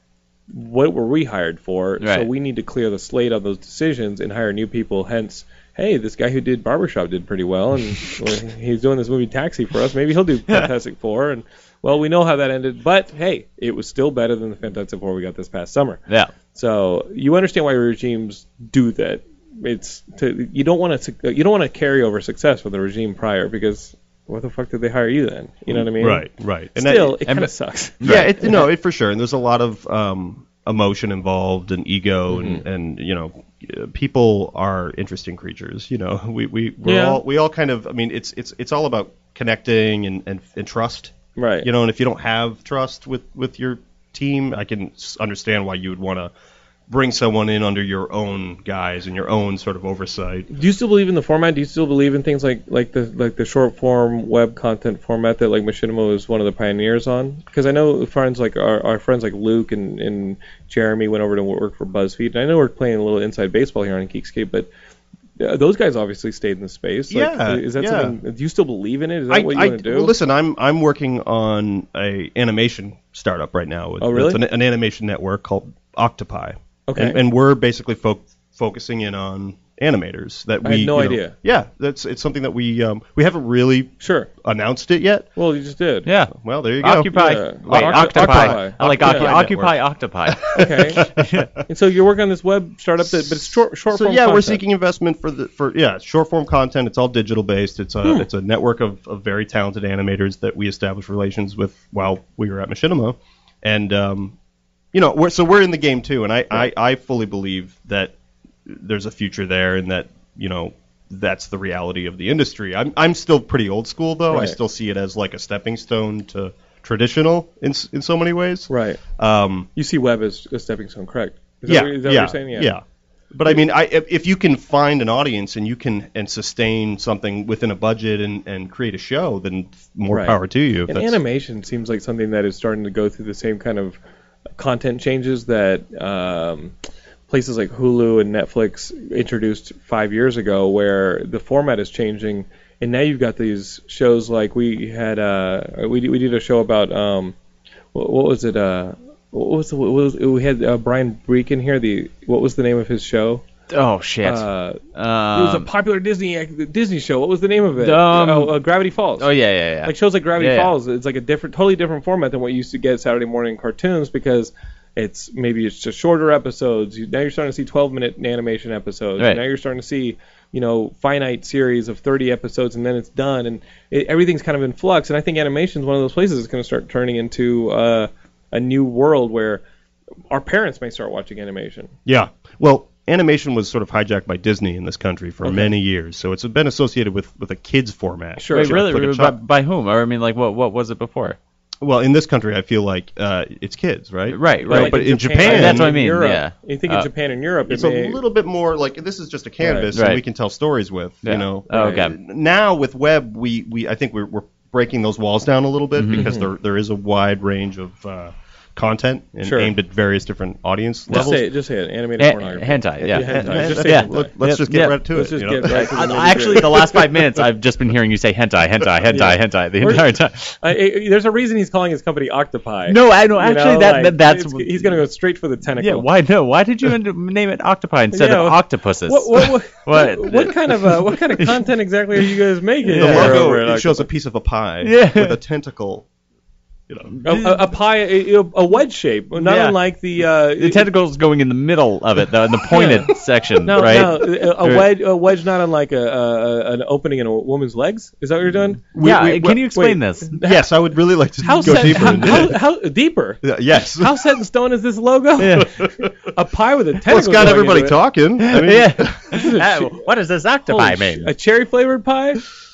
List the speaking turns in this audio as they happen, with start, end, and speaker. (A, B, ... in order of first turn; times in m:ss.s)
0:00.5-0:28.3 A
0:02.0-0:02.3 B
0:16.1-0:16.3 B
0:25.7-0:27.2 C
0:27.2-0:28.5 B
0:28.0-0:46.3 C
0:32.3-0:32.6 A
0:36.8-0:37.2 A
0:41.4-0:41.7 A
0:46.9-0:50.5 C
0:50.5-1:04.7 A
1:05.4-1:10.1 A
1:07.1-1:08.2 C
1:09.3-1:25.3 C
1:14.0-1:14.4 A
1:16.9-1:17.2 A
1:20.6-1:21.3 A
1:24.0-1:24.3 A
1:25.4-1:26.1 A
1:26.0-1:31.5 B
1:26.3-1:27.1 C
1:27.1-1:29.6 A
1:27.7-1:29.8 C
1:30.4-1:31.4 C
1:30.5-1:31.0 A
1:31.7-1:34.6 A
1:33.9-1:44.4 C
1:44.9-1:48.1 C
1:48.6-1:59.7 C
1:54.3-1:54.6 A
1:58.7-1:59.0 A
1:59.7-2:02.7 A
2:01.7-2:11.2 C
2:10.1-2:14.0 A
2:14.6-2:16.7 A
2:17.3-2:27.3 A
2:27.9-2:33.4 A
2:33.7-2:35.7 B
2:34.2-2:34.8 A
2:35.3-2:39.3 A
2:37.8-2:38.6 B
2:39.2-2:40.7 B
2:39.8-2:59.6 A
3:00.3-3:01.9 A
3:02.0-3:09.4 C
3:05.4-3:05.7 A
3:08.4-3:08.8 A
3:08.5-3:11.4 B
3:11.8-3:16.0 C
3:14.3-3:17.1 B
3:14.6-3:18.2 A
3:17.7-3:31.4 C
3:19.6-3:19.9 A
3:19.9-3:20.2 B
3:21.2-3:22.1 B
3:21.7-3:22.0 A
3:26.0-3:26.3 B
3:26.2-3:26.4 A
3:29.4-3:29.7 A
3:31.1-3:31.4 B
3:31.1-3:34.3 A
3:32.2-3:35.0 B
3:33.1-3:36.8 C
3:35.1-3:37.1 A
3:35.6-3:40.6 B
3:39.1-3:46.1 A
3:42.9-3:45.0 B
3:45.8-3:51.6 B
3:48.1-3:54.1 A
3:52.8-3:53.4 B
3:52.9-3:56.1 C
3:54.8-3:55.4 B
3:57.1-3:57.7 B
3:57.2-4:00.8 A
3:59.4-3:59.8 B
4:00.6-4:04.9 B
4:02.7-4:10.7 A
4:08.9-4:09.6 C
4:09.0-4:10.4 B
4:10.4-4:12.6 C
4:11.4-4:18.0 A
4:11.6-4:12.5 B
4:13.4-4:14.3 C
4:15.4-4:15.7 B
4:17.0-4:19.2 C
4:18.4-4:21.3 B
4:19.3-4:20.1 A
4:20.7-4:22.4 A